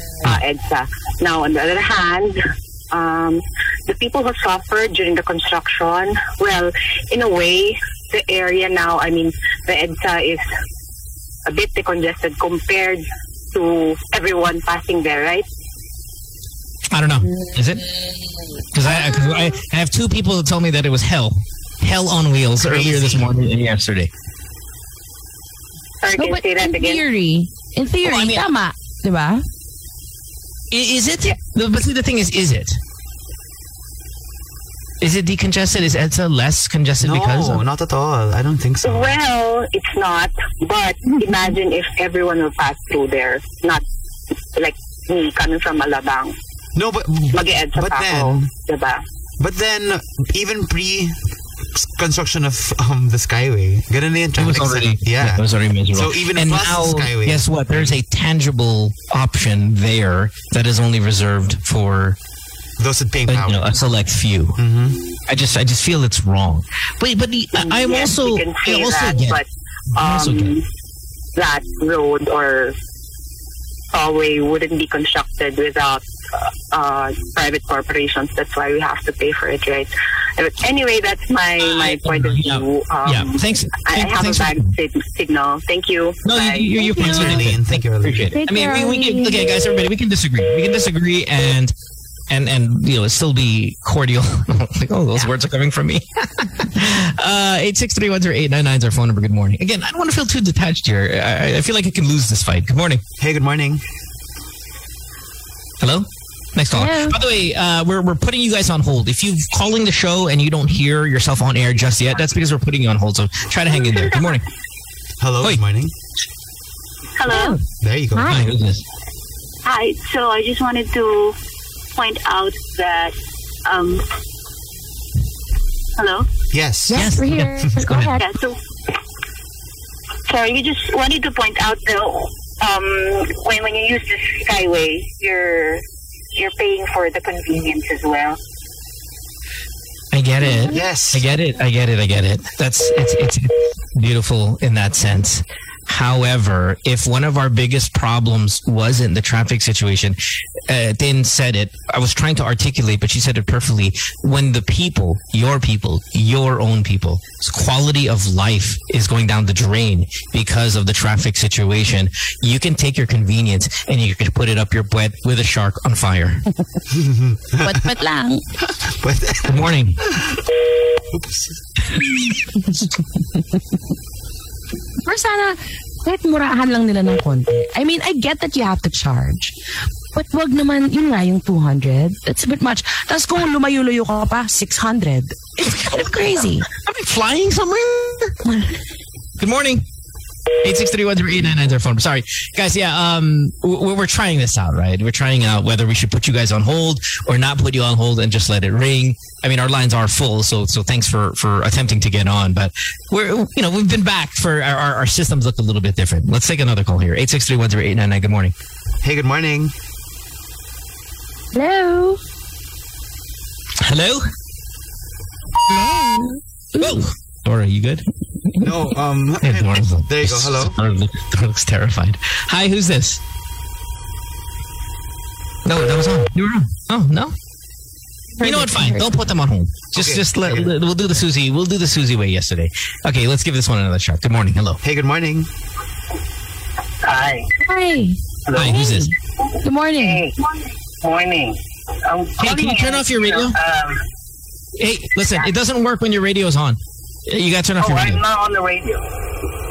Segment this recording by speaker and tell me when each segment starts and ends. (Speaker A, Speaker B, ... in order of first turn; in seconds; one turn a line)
Speaker A: 0.2-2.4
Speaker A: 2.9-10.4
Speaker A: 11.4-15.4
Speaker B: 16.9-17.8
Speaker B: 18.7-24.1
Speaker C: 22.6-23.3
Speaker A: 26.0-27.0
Speaker D: 26.1-29.4
Speaker B: 28.0-28.4
Speaker B: 30.7-32.8
Speaker B: 35.0-37.6
Speaker C: 37.0-39.1
Speaker A: 38.8-43.8
Speaker A: 44.5-46.4
Speaker C: 46.7-48.5
Speaker A: 47.3-49.0
Speaker C: 49.4-51.2
Speaker C: 51.7-58.0
Speaker B: 54.4-62.2
Speaker C: 62.8-63.7
Speaker B: 63.3-64.6
Speaker C: 64.6-65.0
Speaker B: 65.3-69.4
Speaker A: 67.5-70.6
Speaker B: 70.0-70.5
Speaker A: 71.3-72.7
Speaker A: 73.9-86.8
Speaker B: 81.6-84.7
Speaker B: 86.2-91.7
Speaker D: 86.8-87.4
Speaker C: 87.0-88.3
Speaker D: 88.3-89.5
Speaker B: 92.3-103.0
Speaker C: 103.2-103.8
Speaker B: 105.8-114.4
Speaker D: 106.7-107.2
Speaker A: 113.7-114.4
Speaker C: 115.2-115.9
Speaker A: 117.2-117.6
Speaker D: 117.3-117.6
Speaker C: 117.8-118.4
Speaker D: 118.1-118.4
Speaker B: 118.3-118.8
Speaker A: 119.6-121.3
Speaker A: 122.0-123.1
Speaker A: 123.6-124.0
Speaker A: 126.0-126.3
Speaker C: 126.5-127.0
Speaker D: 126.9-128.2
Speaker B: 126.9-128.2
Speaker A: 128.1-128.6
Speaker A: 130.3-135.8
Speaker A: 136.3-138.4
Speaker B: 140.1-166.4
Speaker C: 140.7-141.2
Speaker C: 166.9-167.9
Speaker D: 167.6-168.4
Speaker C: 168.8-170.4
Speaker B: 169.5-170.0
Speaker C: 171.1-171.6
Speaker D: 175.0-179.5
Speaker D: 180.1-186.7
Speaker B: 185.6-188.3
Speaker D: 188.4-188.8
Speaker B: 189.4-189.8
Speaker B: 190.6-208.5
Speaker C: 209.0-209.7
Speaker D: 211.5-212.2
Speaker B: 213.8-214.2
Speaker D: 215.7-217.1
Speaker B: 216.8-218.0
Speaker C: 218.6-220.8
Speaker B: 219.4-223.2
Speaker B: 225.6-227.3
Speaker D: 228.4-229.1
Speaker B: 228.4-234.8
Speaker C: 229.9-230.8
Speaker C: 234.8-235.5
Speaker A: 237.0-237.5
Speaker D: 237.6-238.2
Speaker A: 238.5-239.0
Speaker B: 238.5-239.1
Speaker D: 238.8-239.1
Speaker D: 239.6-240.2
Speaker A: 240.0-240.4
Speaker A: 241.0-241.6
Speaker A: 242.1-244.0
Speaker B: 242.4-243.6
Speaker B: 244.8-248.2
Speaker A: 247.8-249.0